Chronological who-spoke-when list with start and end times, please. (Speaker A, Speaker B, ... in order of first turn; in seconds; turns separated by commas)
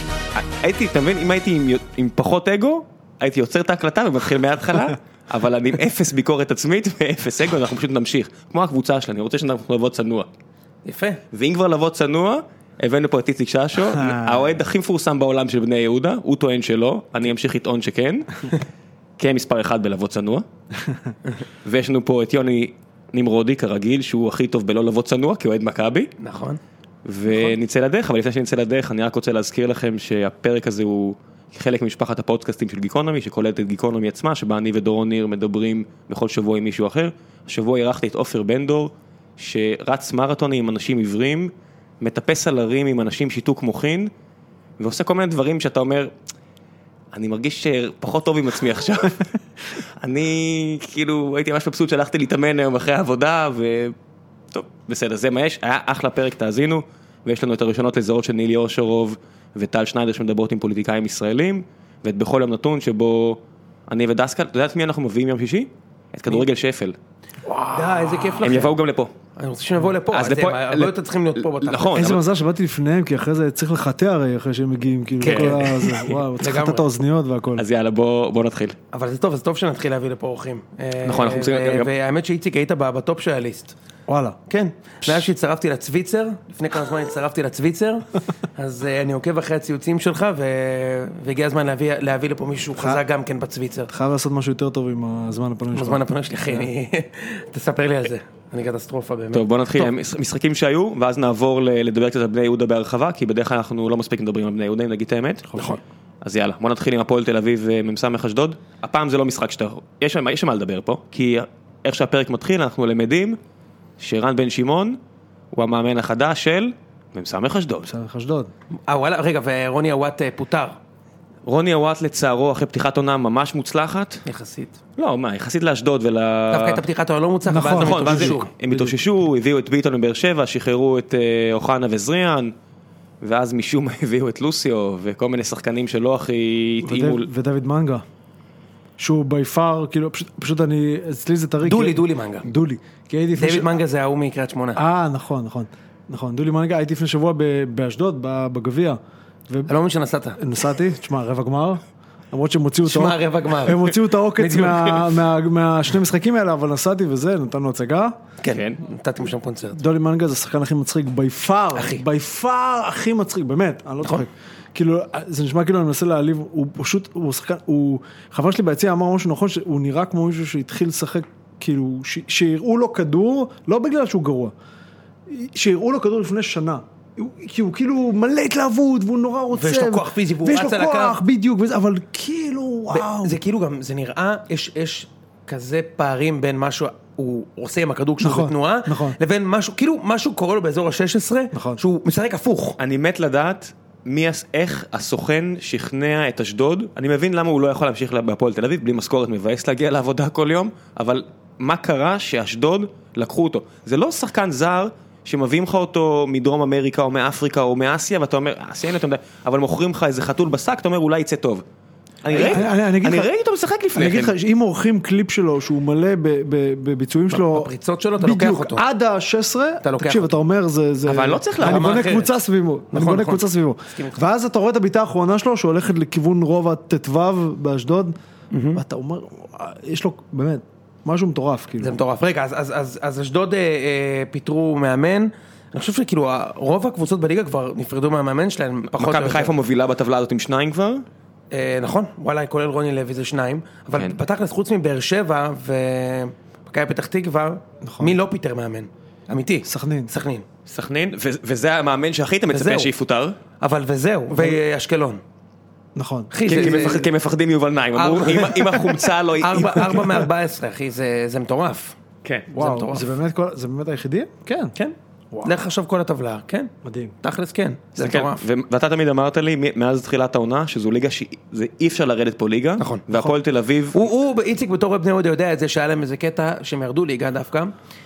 Speaker A: 0.3-10.3, Speaker B: 10.8-11.2, Speaker A: 11.3-18.6, Speaker A: 19.2-20.4, Speaker A: 21.6-26.1, Speaker B: 26.2-26.6, Speaker A: 27.1-44.1, Speaker A: 44.8-46.1, Speaker A: 47.1-49.3, Speaker A: 50.0-54.0, Speaker A: 54.5-67.0, Speaker B: 67.6-68.8, Speaker C: 67.8-68.1, Speaker A: 68.4-69.1, Speaker B: 69.4-71.9, Speaker A: 70.1-72.2, Speaker C: 71.9-77.7, Speaker A: 75.2-76.2, Speaker B: 76.4-76.8, Speaker A: 77.6-78.8, Speaker B: 78.9-83.8, Speaker A: 81.0-81.9, Speaker C: 84.1-84.4, Speaker B: 84.5-93.9, Speaker C: 93.9-96.7, Speaker B: 95.7-99.9, Speaker A: 99.3-113.4, Speaker C: 105.5-105.8, Speaker A: 114.0-115.0, Speaker A: 115.5-117.9, Speaker C: 117.8-118.5, Speaker B: 118.9-120.8, Speaker A: 121.5-124.2, Speaker B: 124.3-124.8, Speaker A: 125.0-126.8, Speaker B: 126.5-128.5, Speaker C: 127.5-128.9, Speaker A: 127.8-132.5, Speaker A: 133.2-137.3, Speaker C: 136.8-138.0, Speaker C: 139.0-143.8, Speaker B: 141.6-142.5, Speaker B: 143.4-144.8, Speaker C: 144.8-149.7, Speaker B: 149.7-150.4, Speaker C: 150.4-158.2, Speaker B: 152.8-155.1, Speaker B: 158.4-159.8, Speaker A: 158.5-158.8, Speaker C: 159.8-174.5, Speaker B: 161.8-162.0, Speaker C: 175.3-183.4, Speaker B: 179.5-181.2, Speaker B: 182.9-192.8, Speaker C: 188.2-189.2, Speaker C: 191.5-191.8, Speaker A: 192.8-211.6, Speaker A: 212.2-214.3, Speaker C: 212.3-213.3, Speaker C: 213.9-228.2, Speaker B: 217.3-218.8, Speaker B: 219.8-220.4, Speaker A: 221.0-222.0, Speaker B: 221.6-222.4, Speaker B: 222.9-224.2, Speaker B: 228.5-228.8, Speaker C: 228.8-232.0, Speaker B: 231.8-239.6, Speaker A: 238.9-241.1, Speaker B: 241.5-250.4, Speaker C: 247.8-248.2, Speaker C: 249.7-250.1, Speaker A: 250.7-253.4, Speaker B: 252.5-252.9, Speaker B: 253.6-255.2, Speaker C: 256.0-257.1, Speaker B: 256.3-257.0, Speaker A: 256.5-260.2, Speaker B: 258.0-262.0, Speaker B: 262.5-263.1, Speaker C: 262.5-264.7, Speaker B: 264.8-268.4, Speaker C: 266.8-267.1, Speaker A: 268.0-274.0, Speaker B: 272.8-273.0, Speaker B: 273.9-277.7